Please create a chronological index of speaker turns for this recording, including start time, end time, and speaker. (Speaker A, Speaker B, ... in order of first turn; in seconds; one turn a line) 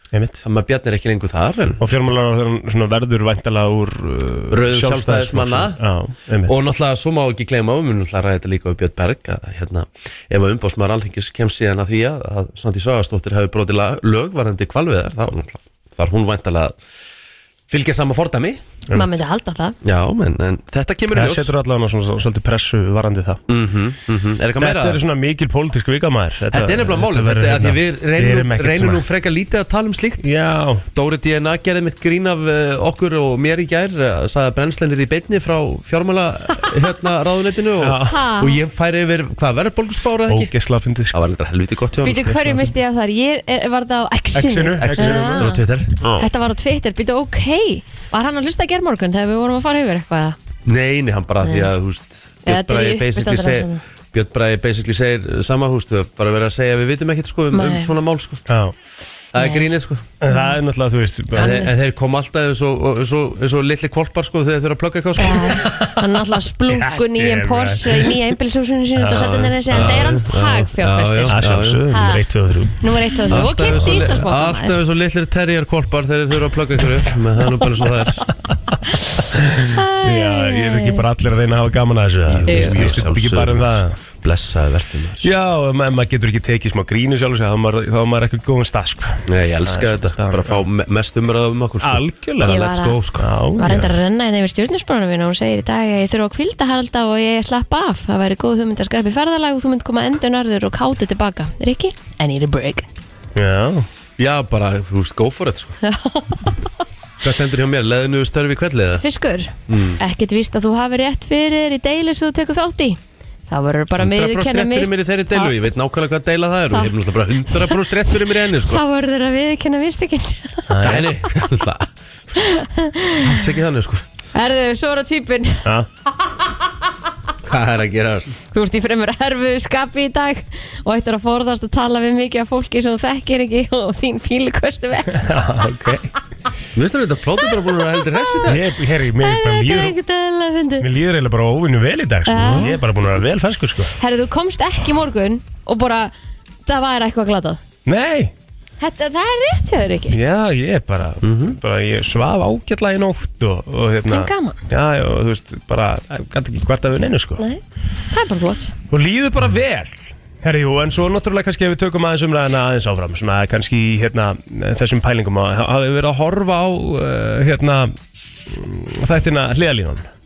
Speaker A: 0.1-0.4
Speaker B: 0.4-1.9
Speaker A: 1.8-6.6
Speaker B: 4.5-5.8
Speaker B: 6.5-16.8
Speaker B: 17.7-18.6
Speaker A: 18.9-19.2
Speaker C: 18.9-19.8
Speaker B: 19.8-21.5
Speaker A: 21.1-23.4
Speaker B: 23.5-25.0
Speaker A: 24.6-29.0
Speaker B: 26.5-30.3
Speaker A: 30.2-30.8
Speaker B: 30.9-40.5
Speaker A: 37.8-38.2
Speaker C: 38.0-38.6
Speaker A: 40.3-41.2
Speaker B: 41.1-42.4
Speaker C: 42.0-45.5
Speaker A: 42.2-42.7
Speaker A: 44.3-45.6
Speaker B: 44.8-46.2
Speaker C: 46.1-50.4
Speaker B: 50.6-58.4
Speaker C: 51.4-51.7
Speaker C: 52.5-53.8
Speaker C: 57.5-57.9
Speaker A: 58.5-58.7
Speaker B: 59.3-60.1
Speaker C: 59.4-59.6
Speaker A: 60.2-61.7
Speaker C: 60.2-60.5
Speaker B: 61.3-65.7
Speaker C: 61.4-61.7
Speaker C: 65.2-72.2
Speaker A: 65.6-66.0
Speaker A: 66.7-68.3
Speaker A: 69.0-70.2
Speaker B: 69.1-71.9
Speaker A: 71.3-74.1
Speaker C: 72.8-74.8
Speaker B: 73.3-78.3
Speaker A: 79.4-84.0
Speaker C: 79.7-81.0
Speaker B: 82.3-85.3
Speaker C: 82.5-83.0
Speaker A: 85.2-90.6
Speaker B: 89.3-93.3
Speaker A: 91.8-92.6
Speaker C: 92.4-93.0
Speaker A: 93.2-93.9
Speaker C: 93.6-102.9
Speaker A: 103.3-103.9
Speaker B: 104.2-105.8
Speaker C: 105.8-106.7
Speaker B: 107.2-109.0
Speaker C: 109.0-115.6
Speaker B: 109.7-110.0
Speaker B: 114.0-118.8
Speaker C: 117.5-117.9
Speaker C: 118.5-121.0
Speaker A: 120.7-121.1
Speaker B: 120.8-121.9
Speaker C: 122.3-123.3
Speaker B: 123.2-124.0
Speaker C: 124.3-125.7
Speaker B: 127.4-128.3
Speaker C: 128.5-135.4
Speaker A: 135.1-136.1
Speaker B: 136.7-138.6
Speaker C: 137.5-138.5
Speaker A: 138.5-139.9
Speaker C: 139.2-140.9
Speaker A: 140.8-143.9
Speaker C: 142.3-142.7
Speaker B: 142.4-142.8
Speaker C: 144.0-146.1
Speaker C: 146.7-147.6
Speaker A: 147.8-148.3
Speaker C: 148.8-150.2
Speaker A: 150.1-157.4
Speaker B: 151.2-151.6
Speaker C: 154.1-154.6
Speaker C: 157.4-158.7
Speaker A: 158.9-167.9
Speaker A: 168.5-170.1